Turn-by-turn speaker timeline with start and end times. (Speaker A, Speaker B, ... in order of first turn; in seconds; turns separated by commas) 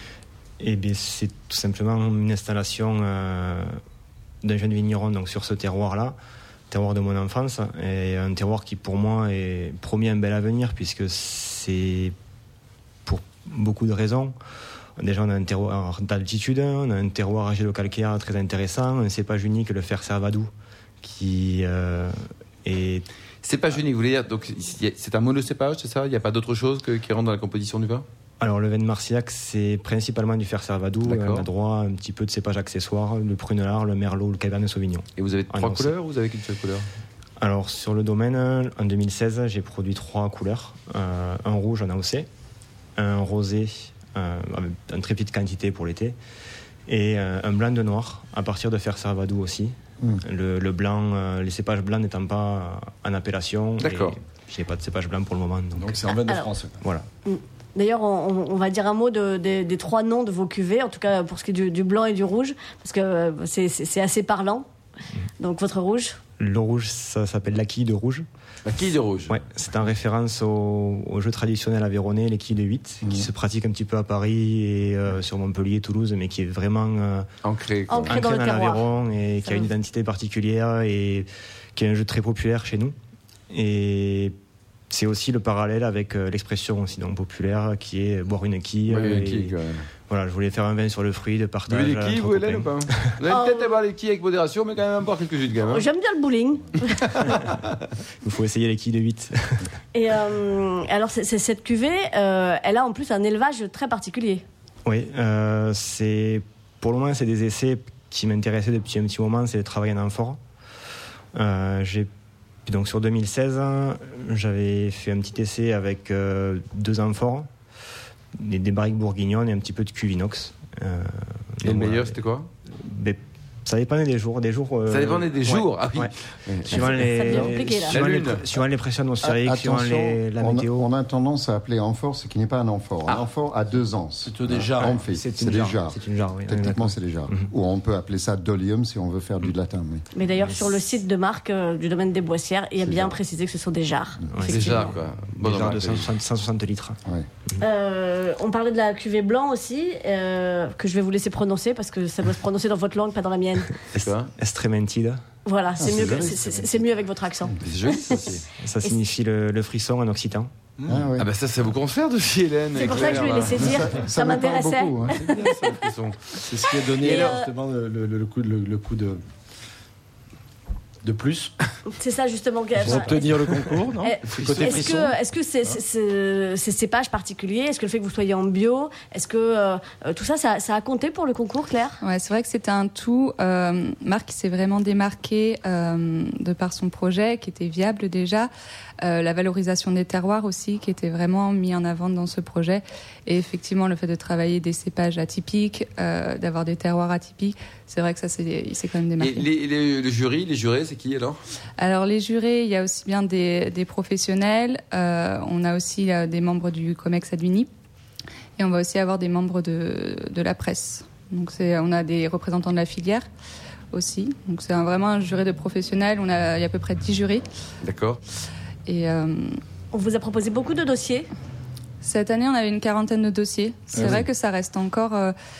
Speaker A: 0.6-3.8, Speaker A: 4.4-6.1, Speaker A: 6.7-12.1, Speaker A: 13.0-14.3, Speaker A: 15.0-20.5, Speaker A: 21.0-23.1, Speaker B: 23.4-28.0, Speaker A: 28.4-35.9, Speaker B: 31.0-31.5, Speaker B: 35.2-36.9, Speaker A: 37.4-42.3, Speaker A: 43.0-46.1, Speaker A: 46.9-56.0, Speaker B: 53.8-54.1, Speaker C: 55.7-56.8, Speaker D: 57.2-64.7, Speaker D: 65.4-66.2, Speaker A: 66.4-68.2, Speaker B: 68.6-69.3, Speaker A: 69.3-77.3, Speaker B: 77.4-78.1, Speaker D: 77.9-78.9, Speaker A: 78.0-82.9, Speaker D: 79.4-79.7, Speaker A: 83.5-84.3, Speaker A: 84.9-89.5, Speaker B: 88.9-89.9, Speaker A: 90.1-93.2, Speaker B: 91.7-95.8, Speaker D: 93.3-93.8, Speaker D: 95.7-97.3, Speaker B: 97.0-97.8, Speaker A: 98.2-99.7, Speaker D: 99.9-104.4, Speaker A: 104.8-110.4, Speaker A: 111.3-112.1, Speaker A: 112.7-117.5, Speaker A: 118.3-122.2, Speaker B: 121.6-122.5, Speaker A: 122.8-126.1, Speaker B: 124.9-127.0, Speaker A: 126.6-130.8, Speaker D: 126.7-128.0, Speaker B: 127.9-128.4, Speaker E: 129.2-140.0, Speaker C: 134.2-135.1, Speaker A: 135.1-137.5, Speaker D: 140.1-144.9, Speaker A: 140.4-140.8, Speaker E: 142.8-143.1, Speaker A: 144.3-147.0, Speaker B: 144.4-146.1, Speaker D: 147.6-153.8, Speaker B: 153.9-154.3, Speaker A: 154.4-155.2, Speaker D: 155.4-159.0, Speaker E: 155.8-156.8, Speaker B: 157.6-158.4, Speaker A: 158.6-160.5, Speaker C: 160.8-161.1, Speaker E: 160.9-161.3, Speaker B: 161.2-163.9, Speaker D: 162.7-165.9, Speaker E: 163.4-165.2, Speaker B: 165.1-167.3, Speaker C: 166.4-169.2, Speaker D: 166.7-167.5, Speaker C: 171.0-171.5, Speaker D: 171.9-182.0, Speaker C: 172.8-175.2, Speaker B: 174.4-174.8, Speaker F: 182.0-188.5, Speaker F: 189.0-199.4, Speaker B: 199.2-201.4, Speaker F: 201.8-207.7, Speaker F: 208.6-213.2, Speaker F: 213.9-217.4, Speaker B: 217.8-218.2, Speaker F: 218.8-219.6, Speaker D: 219.9-221.3, Speaker F: 222.0-225.3